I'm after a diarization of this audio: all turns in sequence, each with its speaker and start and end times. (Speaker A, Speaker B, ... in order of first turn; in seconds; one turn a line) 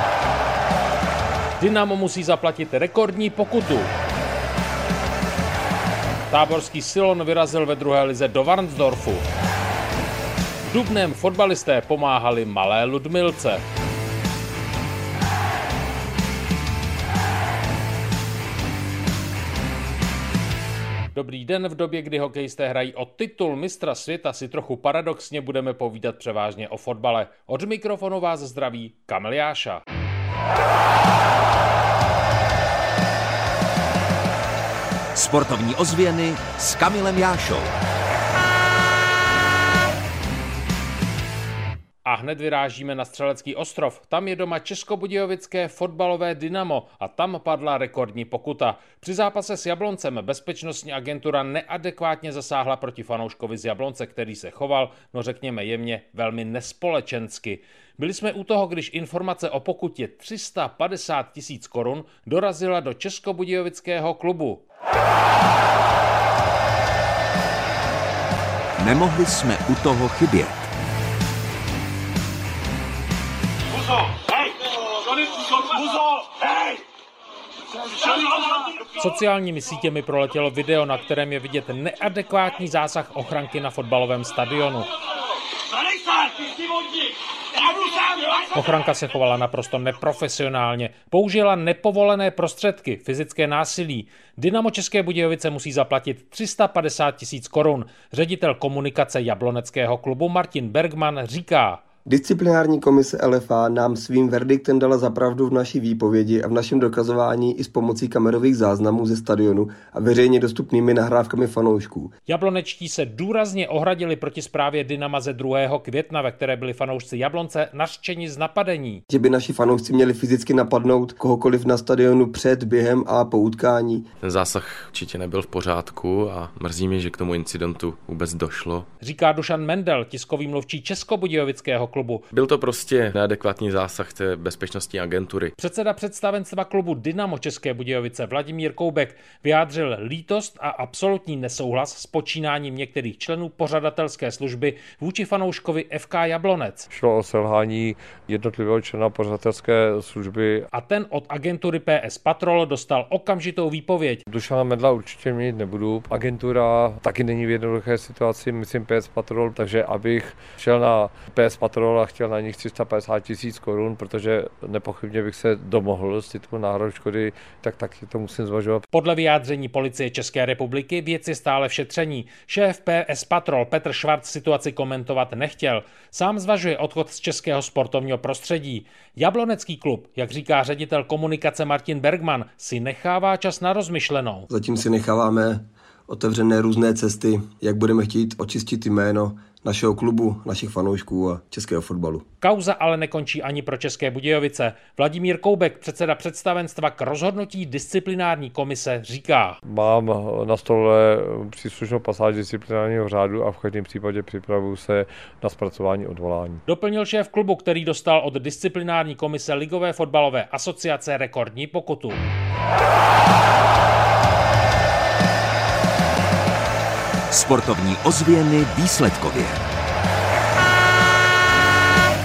Speaker A: 1.6-3.9
Speaker A: 6.3-9.2
Speaker A: 10.7-13.6
Speaker A: 21.1-29.8
Speaker B: 35.1-37.7
Speaker A: 42.0-64.6
Speaker B: 68.8-70.7
Speaker A: 78.9-84.9
Speaker A: 88.4-101.8
Speaker C: 102.1-112.1
Speaker A: 112.3-119.0
Speaker C: 119.1-124.0
Speaker D: 124.2-128.9
Speaker A: 129.0-132.2
Speaker D: 132.3-135.5
Speaker A: 135.6-146.9
Speaker E: 146.9-150.7
Speaker A: 150.7-154.2
Speaker E: 154.3-168.9
Speaker A: 168.9-184.5
Speaker C: 184.5-192.2
Speaker A: 192.4-199.6
Speaker E: 199.7-206.6
Speaker A: 206.7-212.3
Speaker B: 217.3-219.6